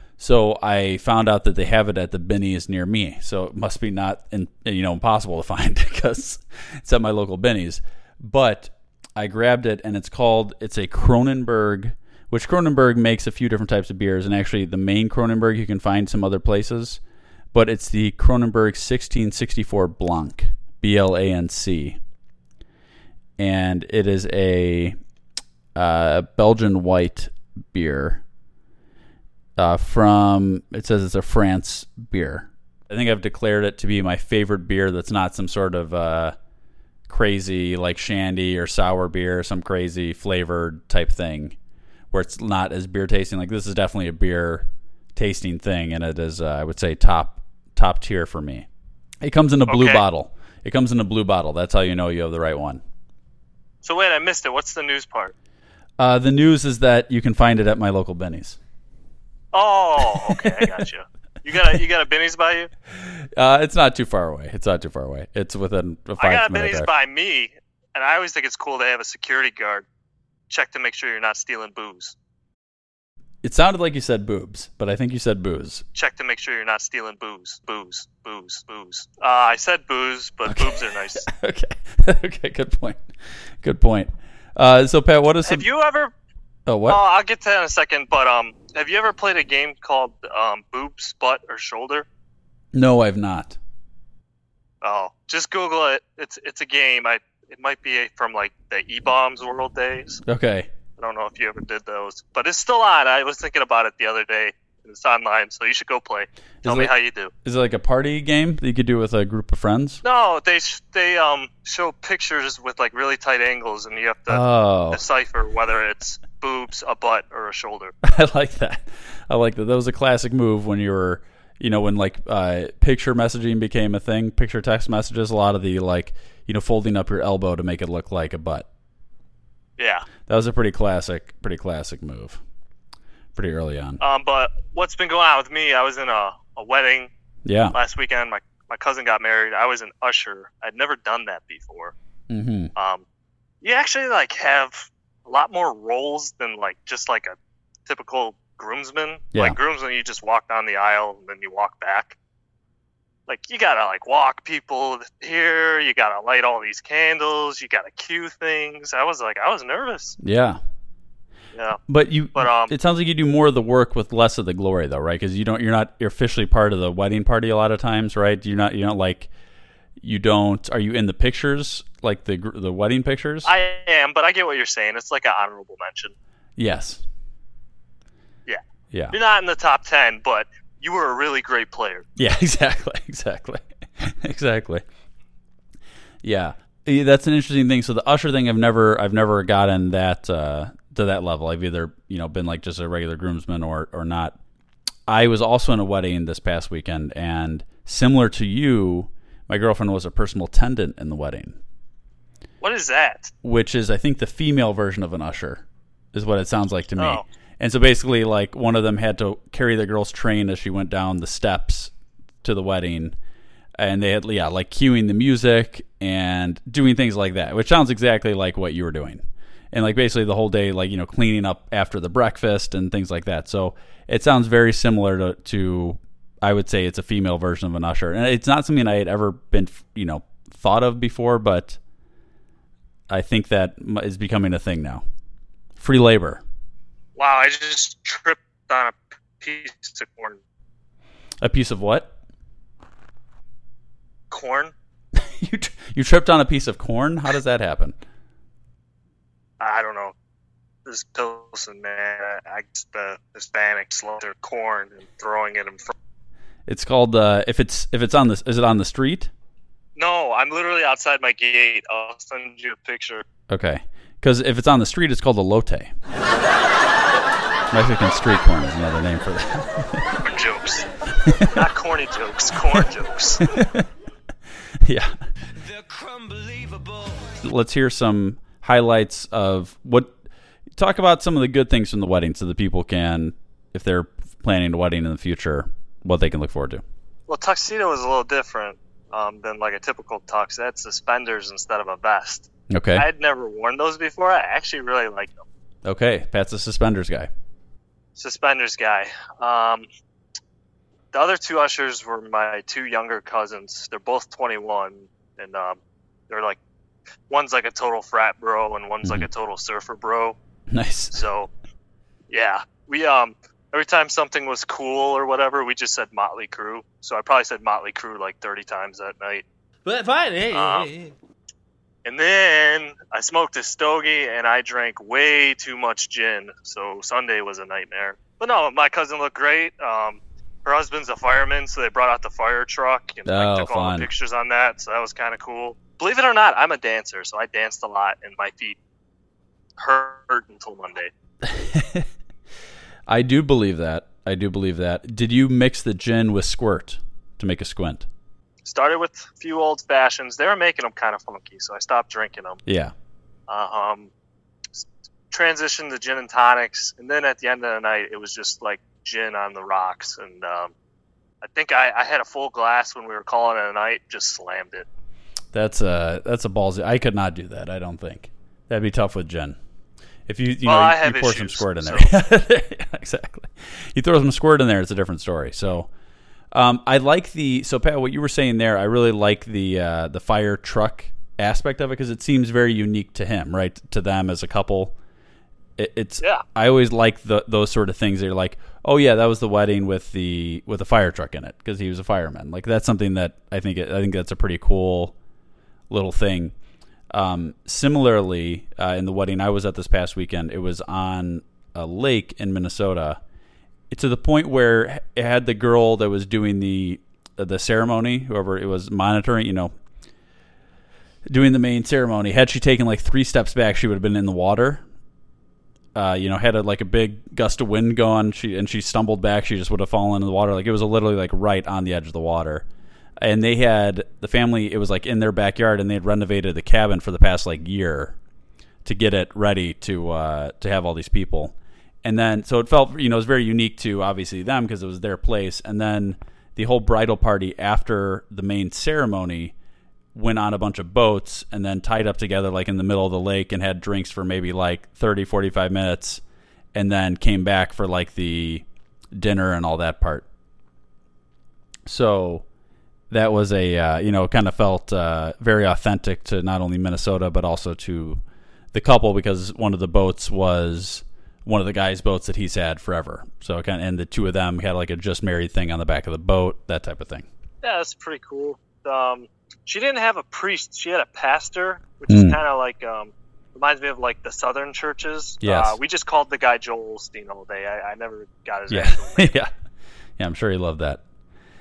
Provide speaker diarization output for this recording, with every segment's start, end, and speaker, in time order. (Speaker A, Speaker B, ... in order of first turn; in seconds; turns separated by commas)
Speaker A: 0.2-17.0, Speaker A: 17.5-22.0, Speaker A: 23.4-25.0, Speaker A: 25.7-28.2, Speaker A: 29.6-36.4, Speaker A: 37.1-41.5, Speaker A: 42.1-48.7, Speaker A: 49.2-52.8, Speaker B: 49.7-50.0, Speaker B: 53.8-55.3, Speaker A: 56.0-58.6, Speaker B: 59.5-62.7, Speaker A: 60.1-60.7, Speaker A: 63.4-66.9, Speaker B: 66.2-69.8, Speaker B: 70.5-72.1, Speaker A: 73.4-75.8, Speaker B: 75.9-81.2, Speaker A: 80.5-83.0, Speaker A: 83.6-85.7, Speaker B: 85.4-86.1, Speaker A: 86.7-87.0, Speaker B: 86.9-92.0, Speaker A: 92.7-93.6, Speaker B: 94.8-100.2, Speaker A: 100.2-100.7, Speaker B: 101.0-107.3, Speaker A: 106.6-106.9, Speaker A: 107.4-110.0, Speaker B: 110.0-117.9, Speaker A: 114.3-115.0, Speaker A: 118.0-128.7, Speaker B: 129.8-130.1, Speaker A: 130.2-132.4, Speaker A: 133.3-134.0, Speaker B: 134.0-137.1, Speaker A: 137.4-137.7, Speaker B: 137.7-141.9, Speaker A: 142.3-142.7, Speaker B: 142.8-143.0, Speaker B: 143.6-147.3, Speaker B: 147.8-152.2, Speaker B: 153.3-160.2, Speaker A: 160.2-160.6, Speaker B: 161.5-161.8, Speaker A: 161.9-169.3, Speaker B: 162.3-162.7, Speaker A: 170.0-173.5, Speaker B: 173.4-176.1, Speaker A: 176.6-177.0, Speaker B: 178.4-182.1, Speaker A: 178.9-179.2, Speaker A: 182.2-184.8, Speaker A: 186.2-194.4, Speaker A: 195.1-201.6, Speaker B: 202.6-203.3, Speaker A: 203.4-211.9, Speaker B: 207.0-207.2, Speaker A: 212.4-213.2, Speaker A: 213.8-231.8, Speaker A: 233.1-235.0, Speaker A: 235.8-236.4, Speaker B: 237.2-240.4, Speaker A: 241.4-242.1, Speaker B: 244.3-244.7, Speaker A: 245.1-247.9, Speaker B: 249.6-250.1, Speaker B: 250.8-255.9, Speaker A: 256.7-259.3, Speaker B: 259.9-263.2, Speaker A: 263.5-265.9, Speaker A: 267.7-270.1, Speaker B: 270.2-270.9, Speaker A: 271.2-271.6, Speaker B: 271.5-273.4, Speaker A: 273.4-273.9, Speaker A: 274.8-275.1, Speaker C: 275.6-277.4, Speaker A: 277.4-280.1, Speaker A: 280.8-286.8, Speaker B: 287.3-295.4, Speaker A: 292.7-293.0, Speaker A: 295.8-297.3, Speaker B: 298.1-299.9, Speaker B: 301.1-306.6, Speaker B: 307.3-310.4, Speaker A: 310.7-311.2, Speaker B: 311.1-311.5, Speaker B: 312.3-319.4, Speaker C: 319.8-321.1, Speaker B: 320.5-320.9, Speaker B: 322.0-338.8, Speaker A: 333.3-334.1, Speaker B: 339.8-341.1, Speaker A: 341.4-342.1, Speaker A: 343.1-348.1, Speaker B: 348.6-352.6, Speaker A: 352.6-352.9, Speaker B: 353.5-354.1, Speaker B: 354.7-360.7, Speaker B: 361.4-364.9, Speaker A: 365.5-369.6, Speaker A: 370.3-375.9, Speaker B: 370.6-372.1, Speaker A: 376.5-384.9, Speaker A: 385.8-395.1, Speaker A: 395.9-396.5, Speaker A: 397.1-403.2, Speaker A: 403.9-409.7, Speaker A: 411.3-414.8, Speaker A: 415.9-422.6, Speaker A: 423.2-428.2, Speaker A: 428.8-439.5, Speaker A: 440.1-446.2, Speaker A: 446.7-450.2, Speaker A: 451.9-452.4, Speaker A: 453.1-458.2, Speaker A: 458.7-467.3, Speaker B: 467.6-479.3, Speaker A: 472.1-472.4, Speaker A: 475.4-475.7, Speaker A: 478.7-479.5, Speaker A: 480.2-481.0